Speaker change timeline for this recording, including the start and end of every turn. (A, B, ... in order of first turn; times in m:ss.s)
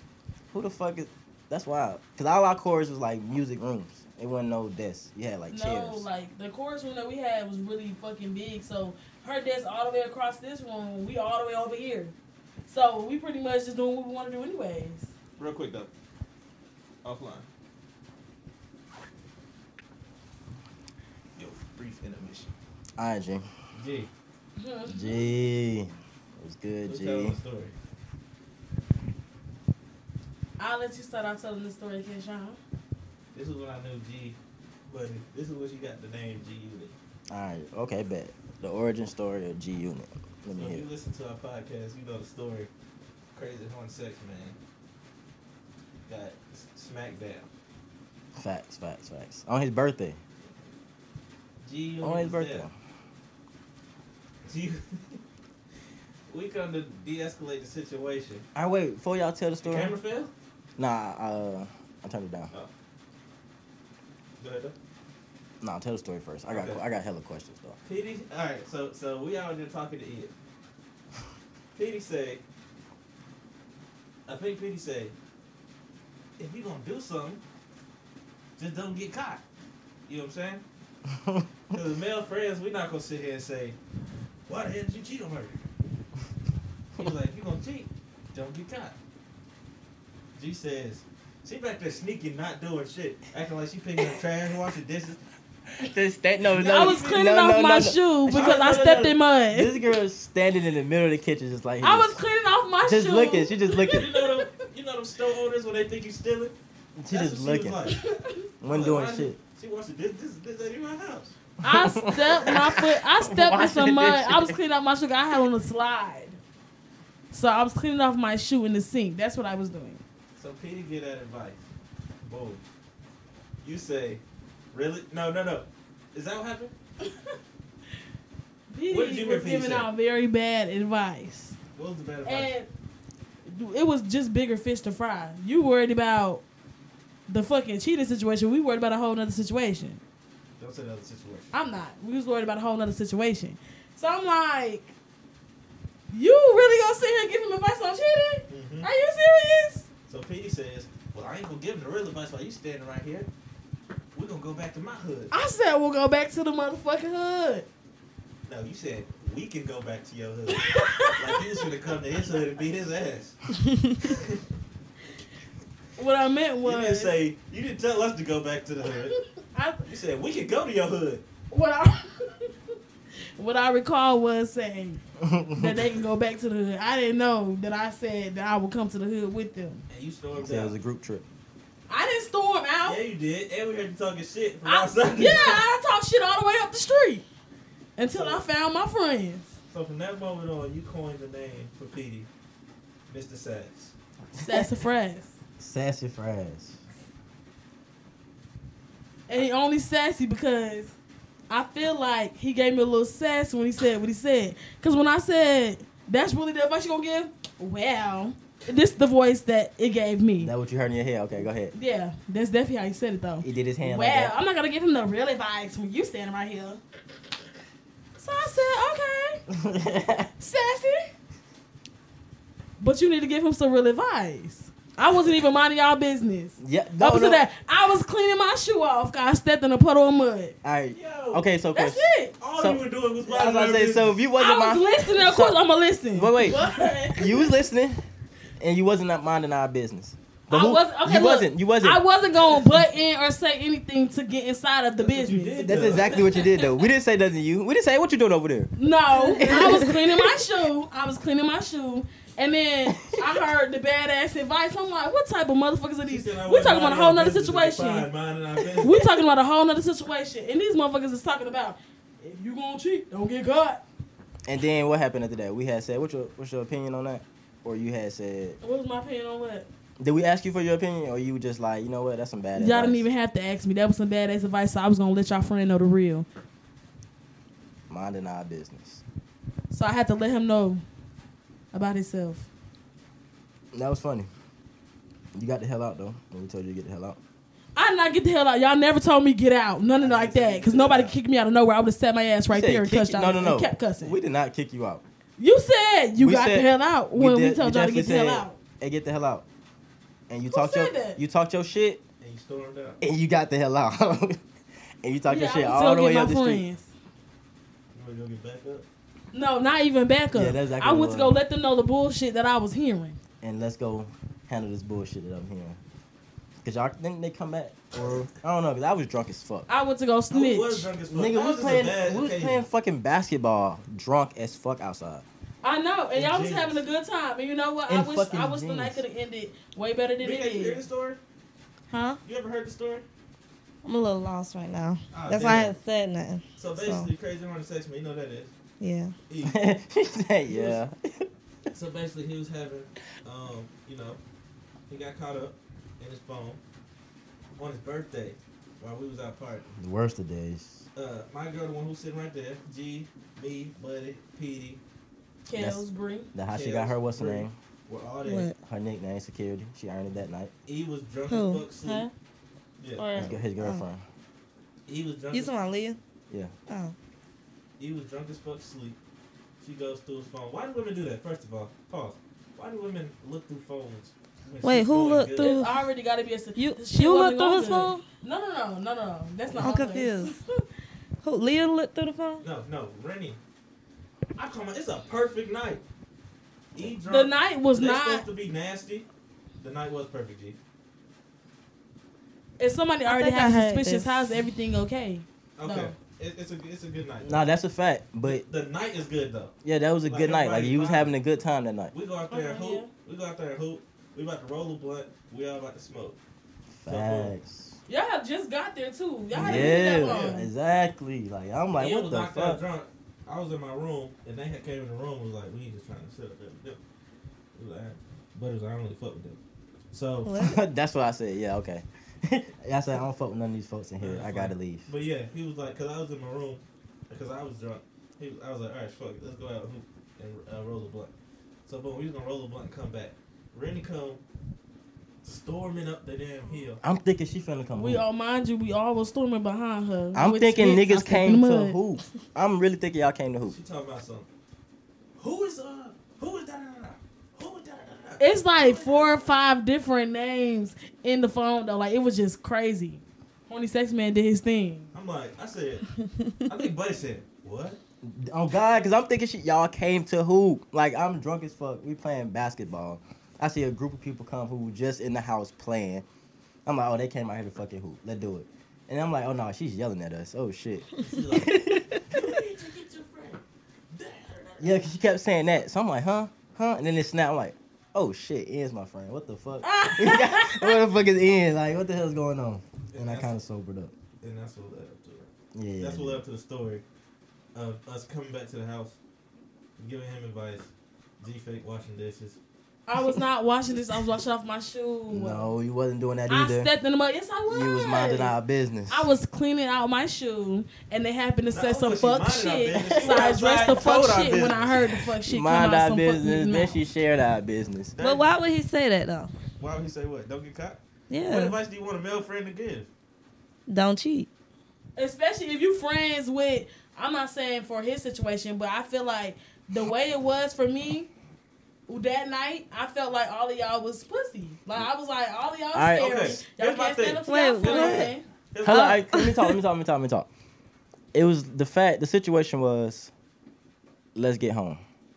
0:00.5-0:06.1 A
0:05.5-0:12.1 B
0:12.7-0:15.1 B
0:15.4-0:15.9 C
0:17.0-0:17.5 C
0:21.4-0:22.5 C
0:23.0-0:23.5 A
0:23.8-0:24.1 C
0:24.6-0:25.3 B
0:24.9-0:27.4 A
0:26.9-0:27.8 C
0:30.6-0:32.6 B
0:33.3-0:37.0 C
0:37.3-0:40.9 A
0:40.5-0:42.7 C
0:43.3-0:44.6 C
0:46.1-0:47.5 C
0:48.4-0:50.2 A
0:51.6-0:52.7 C
0:52.0-0:52.7 A
0:54.4-0:55.2 C
0:56.3-0:58.4 C
0:58.6-1:00.0 A
0:59.6-1:00.3 C
1:00.8-1:02.5 A
1:04.4-1:04.8 C
1:05.6-1:07.8 A
1:06.5-1:06.8 C
1:07.8-1:10.3 C
1:11.8-1:12.4 C
1:14.3-1:15.2 C
1:16.4-1:17.4 C
1:18.6-1:19.4 C
1:20.1-1:20.6 C
1:21.1-1:21.5 A
1:21.7-1:23.8 C
1:24.5-1:25.6 C
1:27.0-1:29.0 C
1:30.4-1:35.2 C
1:35.8-1:38.8 A
1:36.4-1:37.2 C
1:36.6-1:39.8 B
1:38.3-1:39.1 C
1:39.5-1:42.2 A
1:41.8-1:44.5 B
1:42.8-1:44.1 A
1:43.9-1:46.6 C
1:47.0-1:47.9 A
1:47.1-1:51.3 C
1:48.6-1:49.4 A
1:51.6-1:54.6 A
1:51.6-1:56.4 B
1:57.3-2:00.0 B
2:00.4-2:01.7 C
2:02.2-2:02.6 C
2:03.6-2:06.7 C
2:08.7-2:11.6 B
2:08.9-2:09.9 C
2:11.8-2:12.5 C
2:12.2-2:12.7 B
2:13.4-2:16.4 B
2:17.3-2:20.0 B
2:20.6-2:21.5 C
2:21.5-2:24.9 B
2:26.1-2:29.9 B
2:28.5-2:28.9 C
2:30.1-2:33.3 C
2:34.1-2:35.3 C
2:35.3-2:37.7 B
2:38.5-2:43.4 C
2:40.5-2:41.6 B
2:43.7-2:44.0 D
2:44.0-2:44.4 C
2:46.0-2:47.2 B
2:46.6-2:49.2 C
2:49.5-2:49.8 B
2:49.9-2:51.2 C
2:51.5-2:52.8 B
2:53.4-2:55.0 B
2:55.2-2:55.8 A
2:55.5-2:59.8 B
2:59.9-3:00.7 C
3:00.4-3:01.2 A
3:01.9-3:03.0 B
3:02.8-3:05.6 C
3:04.6-3:07.2 B
3:08.0-3:09.5 B
3:08.1-3:08.4 C
3:09.7-3:12.3 C
3:13.1-3:13.9 C
3:14.4-3:14.7 A
3:14.4-3:15.4 B
3:15.6-3:16.8 A
3:19.3-3:20.9 B
3:21.5-3:30.5 B
3:30.4-3:31.7 A
3:31.7-3:36.8 B
3:33.4-3:34.4 A
3:38.2-3:39.4 B
3:39.5-3:40.3 A
3:40.4-3:41.1 B
3:42.8-3:50.6 B
3:46.6-3:47.4 A
3:50.6-3:55.6 A
3:50.9-3:51.4 C
3:51.7-3:52.4 B
3:52.4-3:54.2 C
3:54.4-3:57.5 B
3:56.1-3:58.0 A
3:58.6-4:02.0 A
4:00.5-4:06.3 B
4:05.0-4:06.4 C
4:05.6-4:08.7 A
4:08.8-4:18.1 B
4:09.3-4:10.1 A
4:12.9-4:13.4 A
4:16.1-4:19.0 C
4:18.6-4:23.8 B
4:24.4-4:28.6 A
4:28.6-4:29.7 B
4:30.0-4:33.0 A
4:32.6-4:36.3 B
4:37.9-4:39.0 A
4:39.7-4:40.8 B
4:41.7-4:42.5 B
4:43.7-4:44.3 A
4:45.3-4:47.2 A
4:47.8-4:54.2 B
4:50.0-4:51.1 C
4:52.5-4:55.0 A
4:55.4-4:58.6 B
4:56.2-4:59.4 A
5:00.3-5:02.0 A
5:00.5-5:01.2 B
5:02.2-5:03.0 C
5:03.0-5:04.4 A
5:05.0-5:06.6 A
5:05.3-5:06.9 B
5:07.9-5:08.9 C
5:09.3-5:13.2 B
5:10.3-5:11.4 A
5:13.4-5:15.8 A
5:16.6-5:19.7 A
5:19.7-5:20.9 B
5:20.3-5:22.6 C
5:21.1-5:25.2 A
5:25.6-5:30.8 B
5:26.1-5:26.8 C
5:27.9-5:29.0 A
5:30.2-5:31.2 C
5:31.9-5:32.2 D
5:32.2-5:33.0 C
5:33.8-5:37.1 D
5:35.1-5:35.8 C
5:36.6-5:38.5 C
5:38.8-5:39.1 D
5:39.3-5:39.7 C
5:39.4-5:41.3 A
5:40.5-5:40.8 C
5:41.7-5:44.2 C
5:44.9-5:46.6 C
5:47.6-5:49.7 C
5:49.8-5:50.8 A
5:51.0-5:54.8 C
5:55.5-5:56.3 B
5:55.5-5:57.6 A
5:56.5-5:58.5 C
5:58.2-5:58.6 D
5:58.6-6:00.5 A
6:00.7-6:02.1 C
6:01.3-6:02.1 D
6:02.8-6:03.1 C
6:03.0-6:03.8 D
6:03.2-6:04.0 A
6:04.9-6:05.6 C
6:05.3-6:06.0 D
6:06.7-6:07.0 D
6:07.8-6:09.0 C
6:09.6-6:15.6 C
6:14.6-6:15.8 D
6:15.4-6:20.6 B
6:16.6-6:18.0 D
6:19.6-6:20.4 D
6:21.2-6:22.4 D
6:22.4-6:23.4 C
6:24.4-6:25.8 C
6:26.7-6:29.1 C
6:27.0-6:28.3 B
6:29.6-6:30.6 C
6:32.6-6:36.0 B
6:33.1-6:34.3 D
6:35.6-6:37.5 C
6:37.2-6:38.4 A
6:38.2-6:41.2 C
6:39.6-6:41.9 A
6:41.9-6:46.2 C
6:42.3-6:42.9 B
6:46.8-6:47.8 A
6:46.9-6:47.3 C
6:47.9-6:50.5 B
6:49.3-6:50.4 C
6:49.4-6:52.6 A
6:51.8-6:56.8 C
6:57.5-6:59.4 C
6:59.9-7:00.4 C
7:00.3-7:00.6 D
7:00.4-7:04.9 A
7:04.0-7:11.1 C
7:11.7-7:14.2 C
7:15.2-7:16.8 C
7:16.8-7:18.0 A
7:17.7-7:21.8 B
7:20.1-7:23.6 A
7:23.5-7:24.3 C
7:25.2-7:29.3 C
7:28.2-7:34.9 B
7:34.9-7:35.9 C
7:36.4-7:37.8 C
7:38.0-7:46.0 A
7:46.7-7:52.0 A
7:51.0-7:53.4 C
7:53.9-7:54.8 C
7:54.6-8:03.9 A
7:59.6-8:00.8 B
8:02.9-8:03.4 C
8:04.2-8:06.8 C
8:05.5-8:06.2 A
8:07.6-8:09.0 C
8:09.8-8:12.4 C
8:12.9-8:15.5 B
8:15.1-8:16.7 A
8:16.3-8:18.3 B
8:17.5-8:19.1 A
8:18.9-8:26.8 B
8:21.5-8:25.1 C
8:22.8-8:23.3 A
8:25.3-8:28.0 A
8:28.0-8:28.3 C
8:28.0-8:29.3 D
8:29.6-8:32.9 C
8:31.1-8:31.6 D
8:33.7-8:34.3 D
8:35.0-8:41.1 B
8:41.9-8:48.2 B
8:45.7-8:46.4 A
8:46.0-8:49.0 C
8:47.3-8:48.1 D
8:48.6-8:50.3 A
8:48.7-8:49.5 D
8:51.1-8:53.1 A
8:54.2-8:54.8 A